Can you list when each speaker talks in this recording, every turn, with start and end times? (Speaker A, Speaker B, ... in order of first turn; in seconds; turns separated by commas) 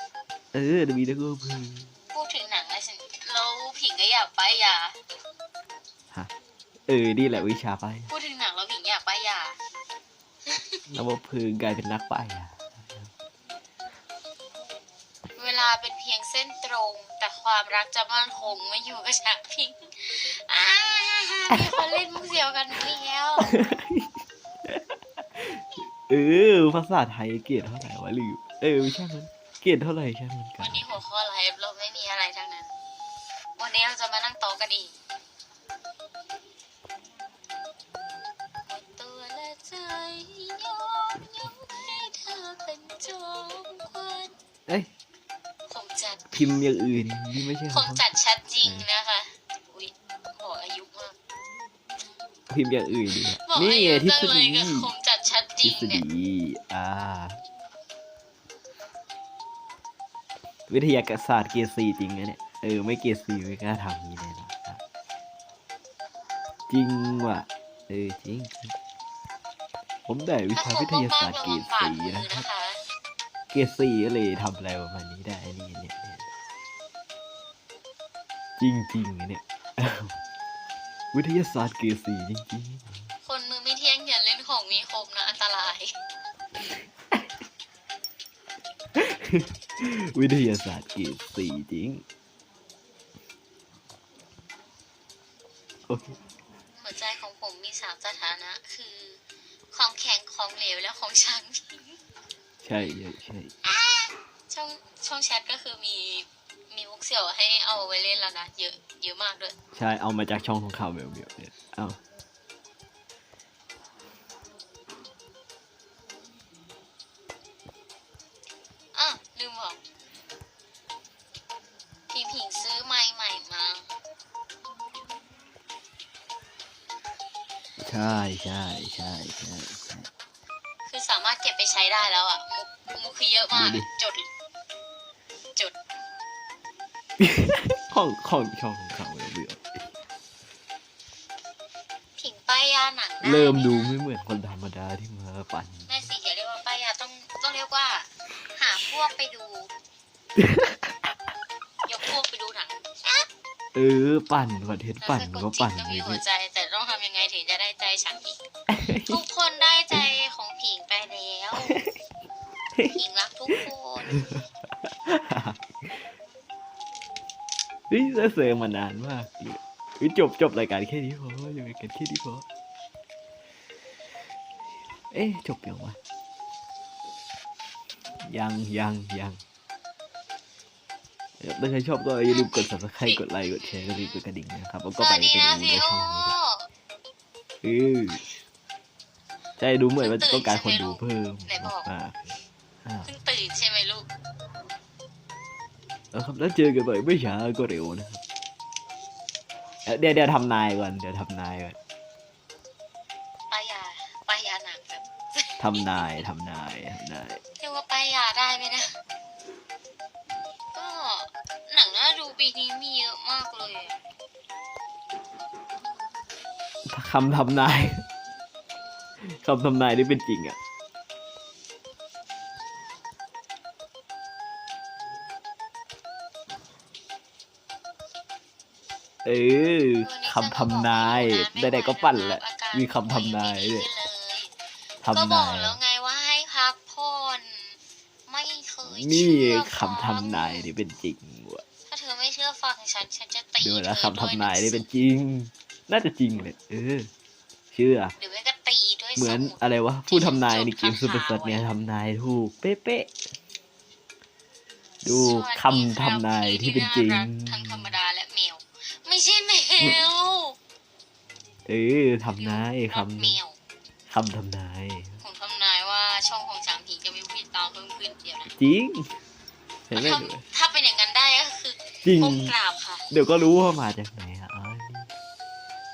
Speaker A: 0.5-1.9, Speaker B: 2.1-5.0, Speaker A: 6.9-8.1, Speaker B: 8.1-9.6, Speaker B: 10.5-10.8, Speaker A: 10.9-13.1, Speaker B: 15.3-23.5, Speaker A: 23.4-24.1, Speaker A: 25.3-30.8, Speaker B: 30.6-32.7, Speaker B: 33.6-35.0, Speaker B: 38.6-44.3, Speaker B: 45.7-46.4, Speaker A: 46.3-48.1, Speaker B: 47.7-51.1, Speaker A: 52.5-54.9, Speaker B: 53.1-56.0, Speaker A: 55.6-57.4, Speaker A: 60.7-64.8, Speaker A: 66.7-68.7, Speaker A: 70.1-72.4, Speaker B: 70.5-72.8, Speaker A: 73.5-76.2, Speaker A: 78.6-80.1, Speaker A: 81.1-83.1, Speaker B: 83.2-85.9, Speaker A: 89.0-92.0, Speaker A: 95.9-96.2, Speaker B: 96.8-99.2, Speaker B: 99.7-102.0, Speaker A: 102.6-103.5, Speaker B: 103.6-109.5, Speaker A: 109.7-112.0, Speaker B: 118.9-119.8, Speaker B: 122.1-123.9, Speaker A: 127.8-130.1, Speaker B: 130.9-134.3, Speaker A: 133.5-133.9, Speaker A: 137.2-139.8, Speaker B: 142.2-144.0, Speaker A: 143.2-145.9, Speaker B: 145.9-149.7, Speaker A: 150.4-150.8, Speaker B: 151.8-153.3, Speaker A: 153.7-156.2, Speaker B: 155.0-158.4, Speaker A: 158.7-159.2, Speaker B: 159.0-161.8, Speaker B: 162.9-164.2, Speaker A: 165.1-165.9, Speaker A: 167.9-172.4, Speaker A: 175.1-176.0, Speaker A: 178.2-179.4, Speaker A: 181.4-186.3, Speaker B: 182.3-184.2, Speaker B: 184.9-186.7, Speaker A: 187.6-188.2, Speaker A: 189.6-193.1, Speaker B: 190.0-191.9, Speaker B: 193.0-194.1, Speaker A: 196.1-198.2, Speaker A: 199.8-201.8, Speaker B: 203.5-206.0, Speaker A: 205.6-207.4, Speaker B: 207.6-209.0, Speaker B: 210.7-213.9, Speaker A: 216.8-218.1, Speaker A: 219.2-220.6, Speaker A: 229.2-233.9, Speaker B: 230.0-234.5, Speaker A: 235.0-235.8, Speaker B: 235.1-240.7, Speaker A: 238.8-241.6, Speaker B: 241.9-244.8, Speaker A: 243.6-247.1, Speaker A: 247.7-248.2, Speaker B: 248.2-251.7, Speaker A: 249.2-253.1, Speaker A: 255.0-257.9, Speaker B: 255.0-260.6, Speaker A: 261.7-263.4, Speaker B: 262.2-263.6, Speaker A: 264.1-265.2, Speaker B: 265.2-268.5, Speaker A: 268.5-269.1, Speaker A: 269.9-270.4, Speaker B: 269.9-273.1, Speaker A: 272.0-272.6, Speaker A: 273.1-275.1